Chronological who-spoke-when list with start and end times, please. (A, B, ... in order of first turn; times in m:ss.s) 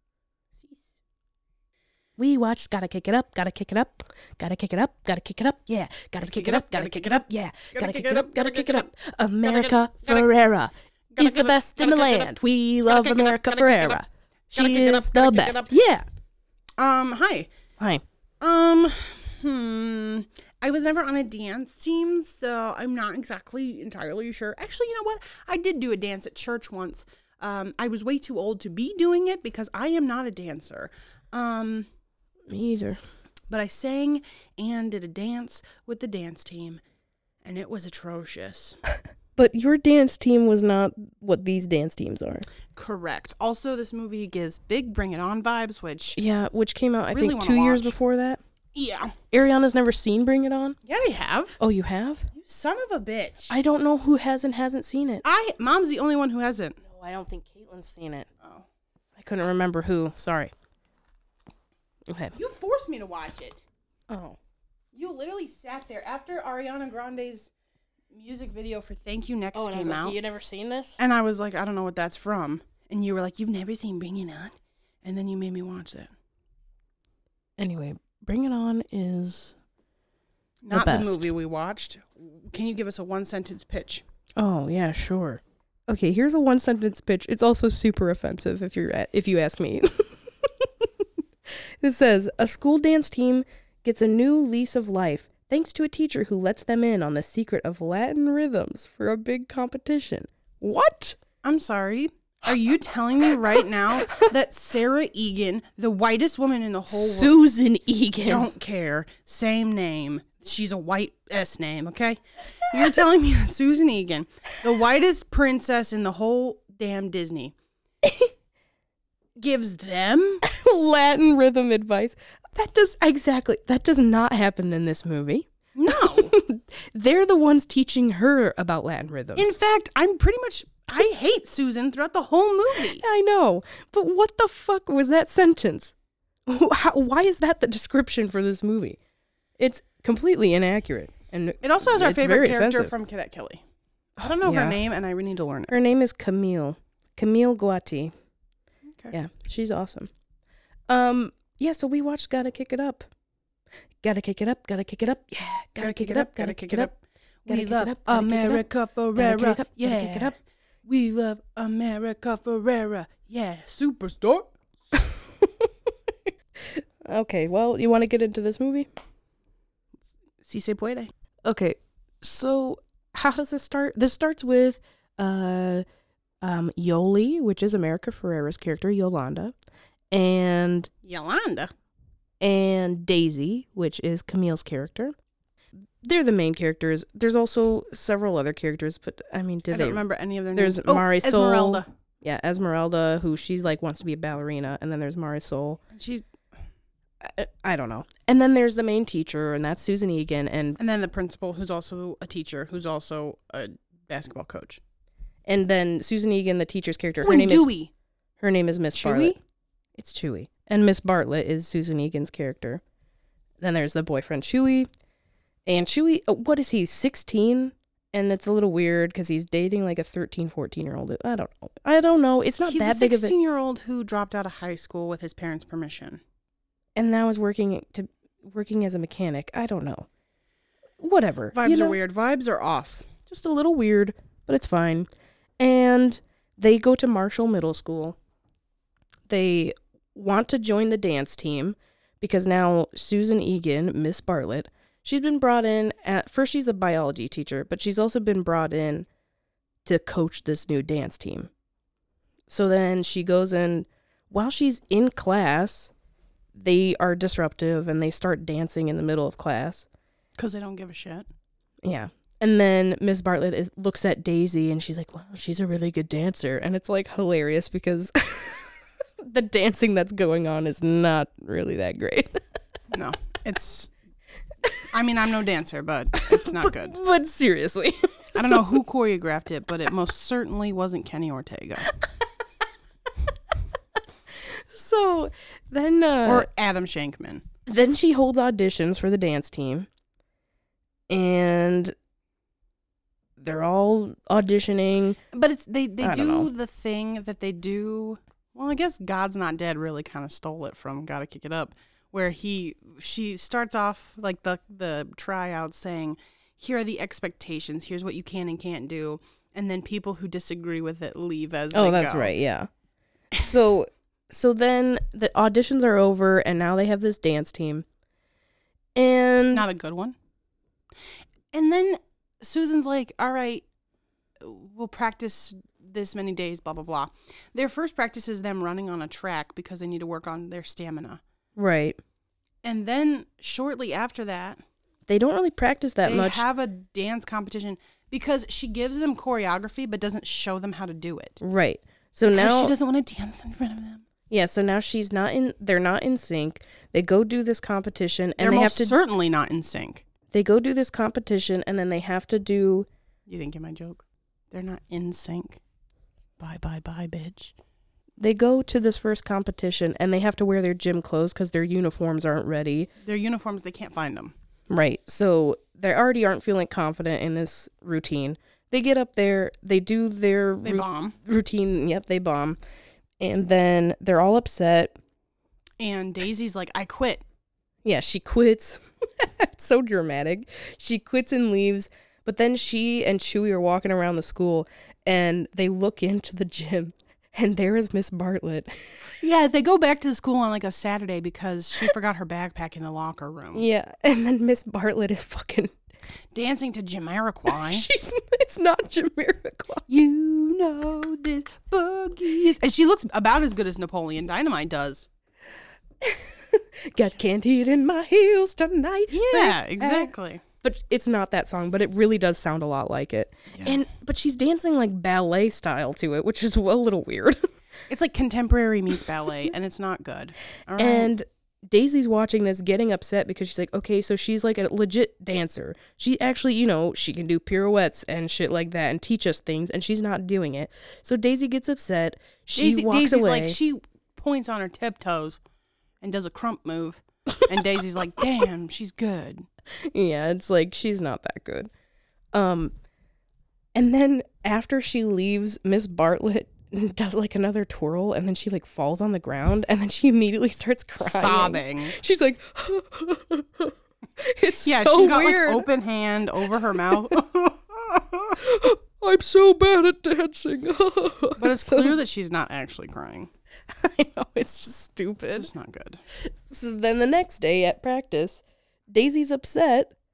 0:00.5-0:01.0 A
0:02.2-0:16.0 B
0:06.2-0:08.9 A
0:09.4-0:10.3 A
0:11.1-0:12.3 A
0:12.9-0:14.0 A
0:14.5-0:15.8 A
0:16.8-0:17.5 A
0:18.4-0:31.9 A
0:32.5-0:33.0 B
0:33.5-0:36.8 A
0:37.4-0:38.8 A
0:39.4-0:42.5 B
0:42.7-0:46.2 A
0:46.2-0:48.4 B
0:47.1-0:48.0 A
0:48.8-0:49.2 A
0:49.3-0:50.8 B
0:50.8-0:51.6 A
0:51.6-0:52.3 B
0:52.3-0:53.5 A
0:53.5-0:55.2 B
0:55.2-0:56.8 A
0:56.8-0:58.3 B
0:58.4-0:58.7 A
0:59.2-1:00.5 B
1:02.1-1:02.4 B
1:02.3-1:03.6 A
1:04.1-1:04.4 B
1:04.9-1:07.5 A
1:08.1-1:10.2 A
1:09.5-1:11.0 B
1:11.0-1:16.1 A
1:17.6-1:19.6 B
1:20.6-1:24.0 A
1:20.7-1:21.3 B
1:24.4-1:30.9 B
1:31.8-1:41.2 B
1:41.4-1:47.4 A
1:46.9-1:48.5 B
1:48.2-1:57.5 A
1:58.0-1:58.3 B
1:59.4-2:00.4 A
2:00.4-2:09.6 B
2:05.8-2:06.3 A
2:09.4-2:13.0 A
2:12.9-2:15.9 B
2:16.5-2:19.0 B
2:19.6-2:22.9 B
2:21.6-2:23.6 A
2:24.2-2:24.8 B
2:24.2-2:25.7 A
2:25.7-2:28.1 B
2:28.9-2:29.1 A
2:29.1-2:30.1 B
2:30.9-2:33.1 B
2:34.0-2:36.9 B
2:35.8-2:40.3 A
2:37.5-2:40.4 B
2:40.8-2:44.5 A
2:44.9-2:45.7 B
2:46.6-2:48.9 B
2:50.4-2:51.1 A
2:51.5-2:55.8 B
2:56.4-2:59.5 B
3:00.1-3:00.9 B
3:01.0-3:01.7 A
3:02.4-3:05.2 B
3:06.0-3:10.0 B
3:09.7-3:11.9 A
3:10.5-3:15.8 B
3:15.9-3:16.3 A
3:17.2-3:20.8 B
3:20.8-3:24.8 A
3:25.5-3:27.7 B
3:27.2-3:27.9 A
3:28.4-3:29.4 B
3:29.0-3:29.4 A
3:30.0-3:32.8 B
3:33.6-3:34.9 B
3:35.7-3:43.3 B
3:42.6-3:46.2 A
3:47.0-3:50.1 B
3:51.0-3:52.0 B
3:51.5-3:53.2 A
3:53.2-3:55.1 B
3:55.6-3:58.2 B
3:59.3-4:09.1 B
4:09.8-4:11.5 B
4:12.5-4:15.9 B
4:16.6-4:19.9 B
4:20.4-4:21.3 A
4:21.8-4:32.4 B
4:32.9-4:33.9 A
4:34.9-4:37.0 A
4:36.2-4:38.7 B
4:38.4-4:41.9 A
4:44.3-4:46.5 B
4:46.2-4:47.4 A
4:47.7-4:49.9 B
4:51.1-4:51.9 B
4:53.4-4:55.2 B
4:55.3-5:12.4 A
4:56.0-4:56.5 B
5:11.7-5:12.7 B
5:13.3-5:17.8 B
5:19.0-5:19.7 B
5:19.5-5:20.2 A
5:21.5-5:23.6 A
5:24.4-5:31.2 A
5:31.6-5:32.0 B
5:32.6-5:34.6 A
5:35.1-5:36.4 B
5:36.0-5:41.4 A
5:41.4-5:42.7 B
5:42.3-5:44.0 A
5:44.3-5:49.0 B
5:48.4-5:50.0 A
5:50.3-5:52.9 B
5:53.3-5:55.6 A
5:56.4-5:57.5 A
5:58.2-6:02.9 B
6:03.0-6:04.3 A
6:04.7-6:12.6 B
6:10.6-6:11.2 A
6:13.2-6:15.0 B
6:15.8-6:17.2 A
6:17.8-6:28.9 B
6:29.2-6:33.6 A
6:33.5-6:35.8 B
6:36.3-6:37.9 A
6:37.5-6:39.9 B
6:39.9-6:45.1 A
6:46.0-6:57.5 B
6:49.1-6:50.4 A
6:53.5-6:53.8 A
6:57.9-7:01.1 A
7:00.8-7:13.6 B
7:12.6-7:15.4 A
7:16.0-7:19.5 A
7:19.9-7:21.7 B
7:22.3-7:22.7 B
7:23.8-7:35.7 B
7:31.0-7:32.0 A
7:34.6-7:38.4 A
7:38.4-7:42.0 B
7:41.4-7:43.3 A
7:43.7-7:45.5 B
7:45.3-7:46.0 A
7:46.2-7:49.9 B